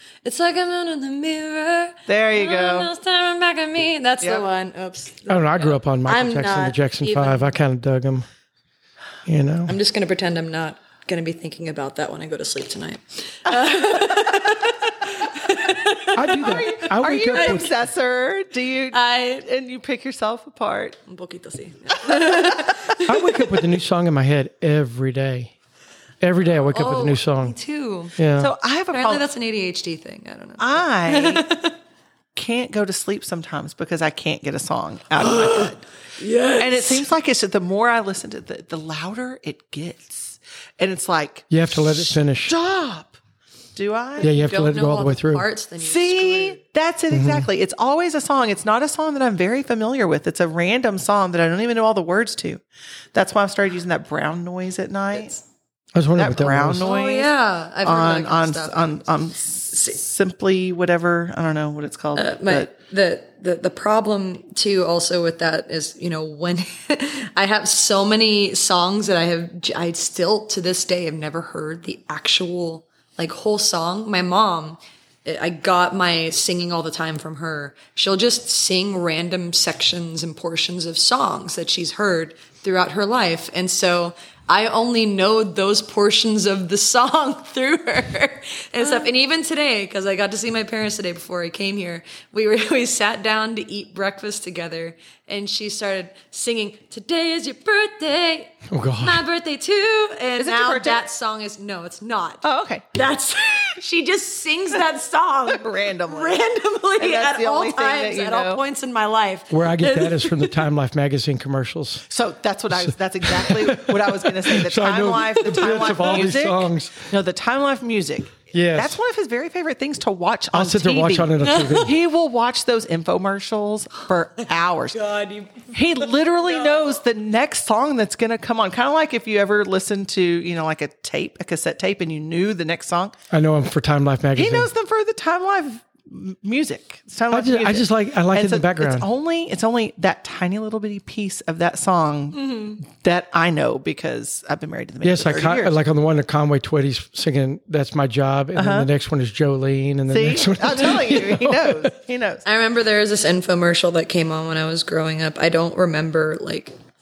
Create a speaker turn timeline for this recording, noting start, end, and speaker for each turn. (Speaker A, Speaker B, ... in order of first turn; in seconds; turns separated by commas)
Speaker A: 0.2-7.5, Speaker B: 2.1-2.9, Speaker C: 5.3-8.3, Speaker C: 9.2-9.8, Speaker A: 9.7-17.7, Speaker C: 16.1-17.8, Speaker B: 16.4-21.0, Speaker A: 18.9-19.5, Speaker A: 21.1-23.6, Speaker B: 22.1-22.6, Speaker C: 23.1-25.5, Speaker C: 26.2-27.6, Speaker A: 26.7-28.2, Speaker C: 28.2-28.5, Speaker B: 28.4-29.3, Speaker A: 28.9-31.8, Speaker B: 30.6-31.5, Speaker B: 32.4-35.9, Speaker A: 35.2-37.1, Speaker B: 36.6-43.2, Speaker C: 41.5-42.6, Speaker B: 43.8-44.3, Speaker C: 44.2-45.5, Speaker A: 44.2-46.6, Speaker B: 45.8-52.6, Speaker C: 47.1-47.5, Speaker B: 53.1-55.4, Speaker C: 55.9-56.9, Speaker B: 56.1-62.7, Speaker A: 56.8-59.0, Speaker A: 59.7-60.0, Speaker A: 62.1-110.7, Speaker C: 98.7-99.2, Speaker B: 100.4-101.0, Speaker B: 102.4-102.8, Speaker B: 105.5-106.4, Speaker B: 107.0-108.6, Speaker C: 109.5-112.1, Speaker B: 112.1-125.0, Speaker C: 112.8-117.1, Speaker A: 115.6-116.2, Speaker C: 118.5-119.0, Speaker C: 120.5-122.0, Speaker A: 121.4-121.9, Speaker A: 124.4-127.0, Speaker B: 125.7-133.2, Speaker C: 133.3-134.7, Speaker B: 134.4-145.8, Speaker C: 137.3-139.1, Speaker A: 142.3-142.8, Speaker C: 145.0-151.9, Speaker B: 148.6-148.9, Speaker B: 150.1-152.4, Speaker A: 152.4-156.7